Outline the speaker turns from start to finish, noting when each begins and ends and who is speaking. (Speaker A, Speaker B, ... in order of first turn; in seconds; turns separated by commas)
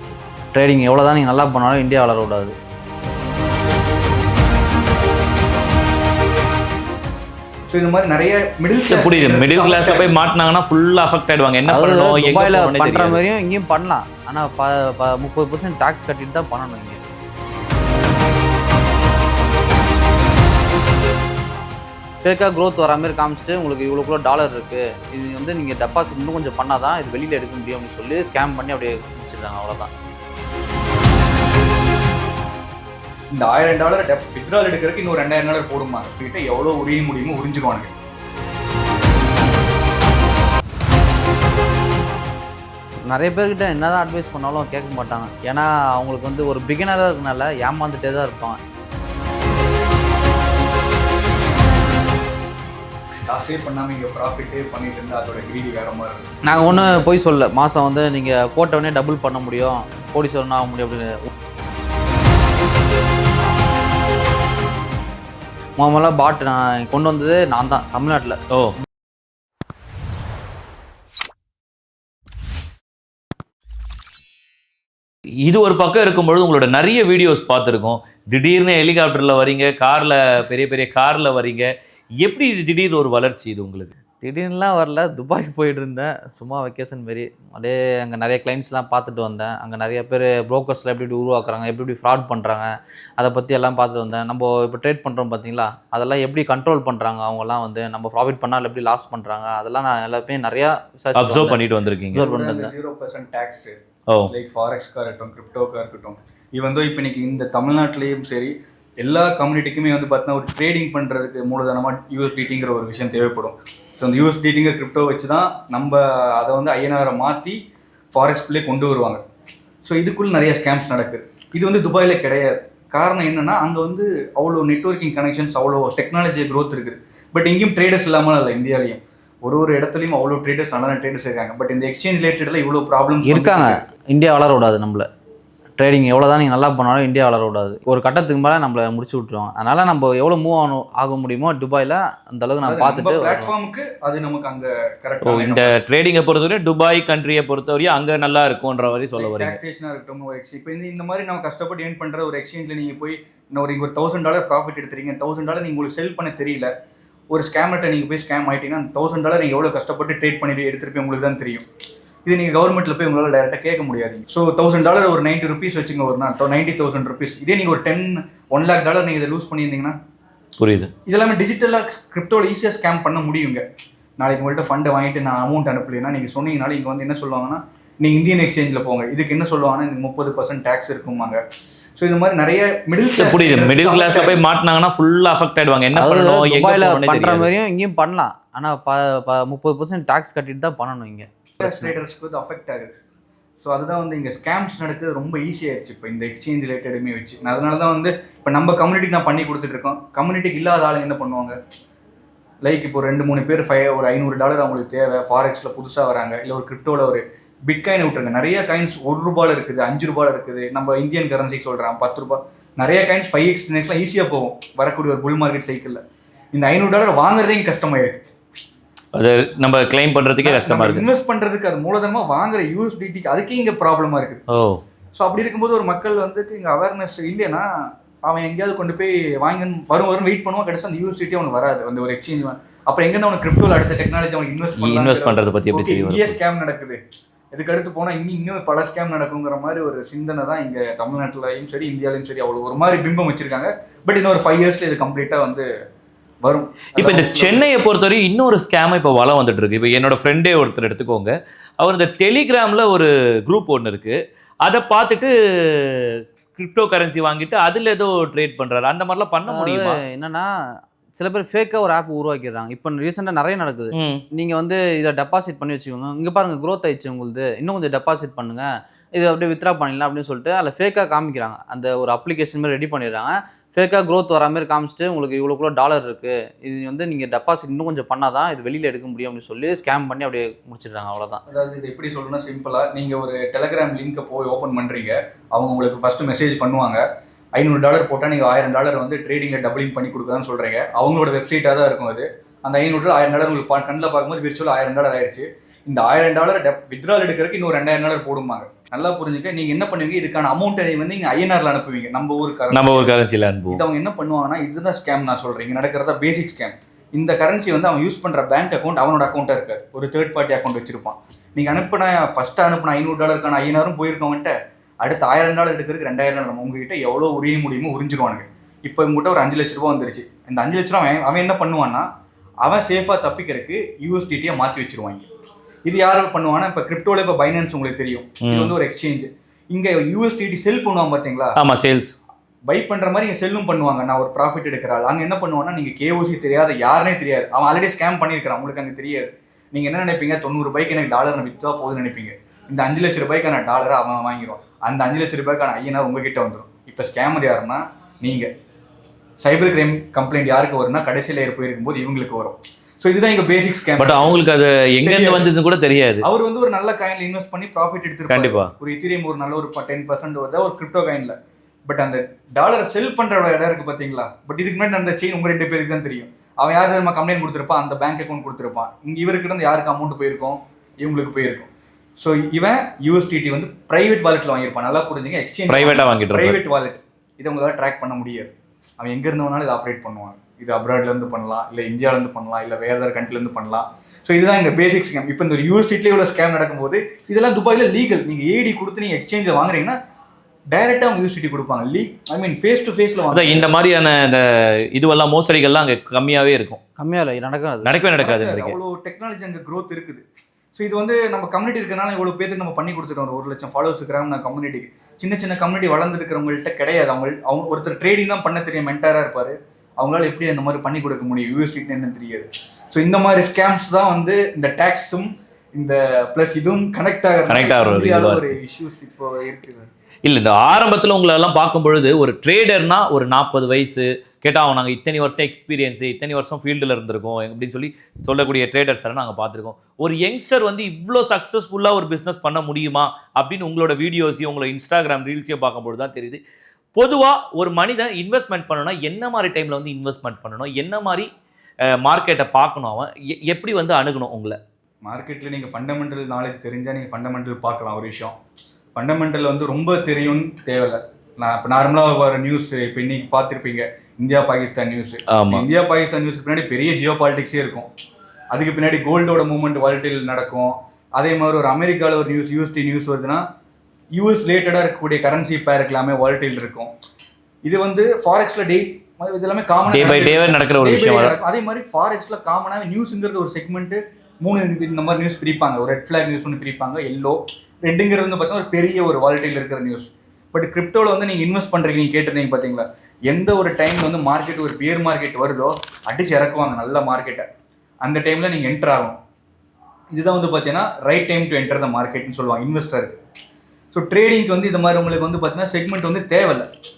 Speaker A: 0.5-2.5, Speaker B: 7.7-10.2, Speaker C: 8.9-13.2, Speaker A: 11.7-17.0, Speaker A: 22.2-29.9, Speaker B: 33.3-37.9, Speaker A: 43.1-48.6, Speaker B: 53.3-56.3, Speaker A: 56.5-61.3, Speaker A: 65.8-68.4, Speaker C: 75.4-81.7, Speaker C: 82.2-83.9, Speaker A: 84.2-101.6, Speaker C: 101.1-102.2, Speaker A: 102.1-102.7, Speaker B: 102.1-103.7, Speaker B: 104.3-117.6, Speaker B: 118.1-119.2, Speaker B: 119.8-133.8, Speaker A: 133.2-135.1, Speaker A: 135.8-143.5, Speaker B: 142.6-145.7, Speaker C: 145.2-149.6, Speaker B: 149.1-156.7, Speaker B: 157.3-161.6, Speaker B: 162.2-169.9, Speaker C: 170.6-170.9, Speaker B: 171.1-173.6, Speaker B: 174.2-181.4, Speaker B: 182.0-184.4, Speaker C: 183.2-187.5, Speaker A: 185.9-191.9, Speaker B: 191.6-192.9, Speaker B: 193.6-201.6, Speaker B: 202.6-216.0, Speaker B: 216.5-218.2, Speaker C: 219.1-221.1, Speaker B: 220.4-224.4, Speaker C: 224.5-224.8, Speaker B: 225.2-227.7, Speaker B: 228.2-237.0, Speaker C: 234.8-236.4, Speaker B: 237.5-245.7, Speaker B: 246.4-247.7, Speaker C: 246.9-260.0, Speaker A: 259.5-260.5, Speaker A: 261.2-281.4, Speaker C: 263.9-264.2, Speaker B: 281.5-287.0, Speaker B: 287.6-303.1, Speaker C: 302.7-303.8, Speaker B: 303.7-322.1, Speaker B: 322.6-325.3, Speaker B: 325.9-331.6, Speaker C: 328.4-328.7, Speaker C: 331.6-332.1, Speaker B: 332.7-348.5, Speaker B: 349.4-354.4, Speaker C: 354.0-356.2, Speaker B: 355.0-355.5, Speaker B: 356.2-361.4, Speaker C: 358.3-358.7, Speaker B: 361.9-390.0, Speaker C: 375.7-376.6, Speaker B: 390.7-393.6, Speaker C: 393.3-396.8, Speaker A: 397.0-397.9, Speaker C: 397.8-398.7, Speaker B: 398.2-400.2, Speaker B: 400.7-419.9, Speaker C: 417.5-418.5, Speaker C: 420.2-436.4, Speaker C: 436.9-441.3, Speaker C: 441.9-444.6, Speaker B: 445.0-448.3, Speaker B: 448.9-457.9, Speaker C: 455.3-455.6, Speaker B: 458.5-463.4, Speaker B: 464.1-466.9, Speaker B: 467.6-487.5, Speaker C: 469.9-471.4, Speaker B: 488.0-489.2, Speaker B: 490.1-493.2, Speaker B: 493.9-496.7